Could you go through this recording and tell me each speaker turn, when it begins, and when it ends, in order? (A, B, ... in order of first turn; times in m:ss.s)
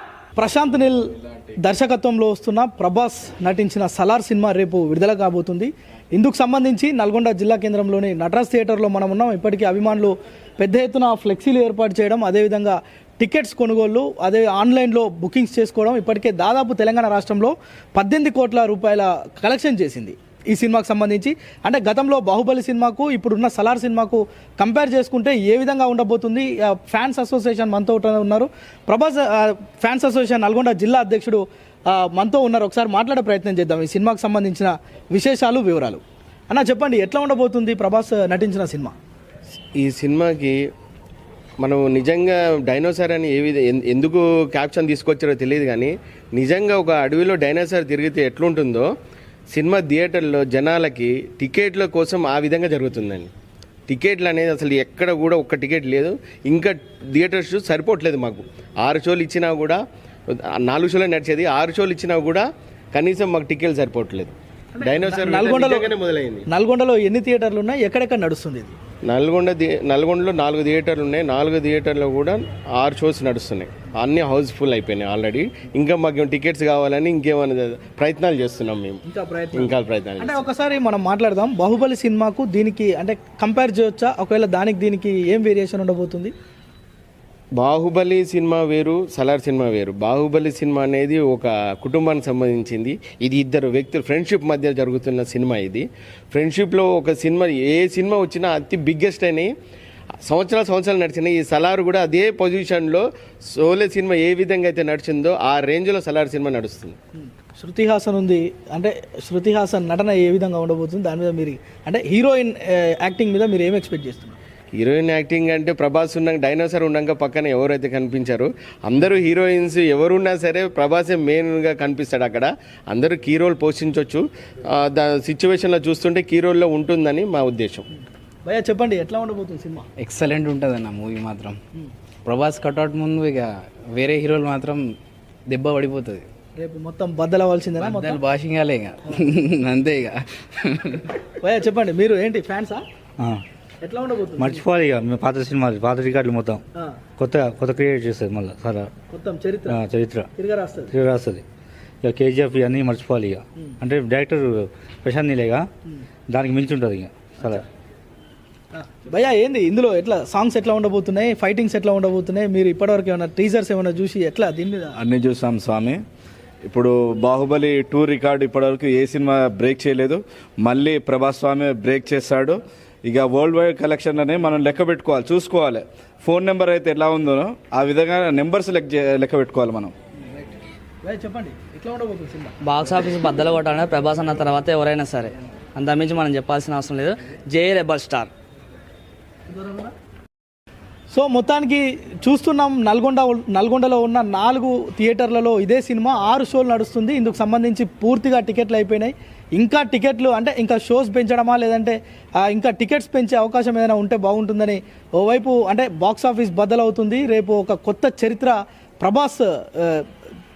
0:00.4-0:01.0 A
0:01.6-0:39.0 A
0:39.8-0:40.6 B
0:41.6-0:48.9 B
0:49.5-0:53.3 B
0:53.9-0:59.8 B
1:00.4-1:06.4 B
1:04.7-1:05.9 A
1:06.5-1:08.7 A
1:09.1-1:19.0 B
1:19.0-1:26.3 A
1:19.6-1:20.4 B
1:27.6-1:39.5 B
1:40.2-1:47.0 B
1:47.2-1:54.4 A
1:54.8-2:07.8 B
2:08.4-2:09.8 A
2:10.0-2:11.6 C
2:12.2-2:14.9 C
2:15.5-2:16.2 C
2:16.6-2:18.2 A
2:17.8-2:21.1 C
2:21.4-2:22.8 A
2:23.8-2:24.6 A
2:24.4-2:26.6 D
2:27.2-2:28.9 D
2:29.1-2:29.8 A
2:29.7-2:30.3 D
2:30.4-2:30.9 A
2:30.9-2:31.4 D
2:32.0-2:35.6 D
2:36.3-2:37.6 D
2:38.7-2:45.0 A
2:45.0-2:46.0 E
2:46.6-2:59.9 E
3:01.0-3:02.5 A
3:02.6-3:08.3 F
3:09.5-3:09.9 A
3:11.1-3:30.1 A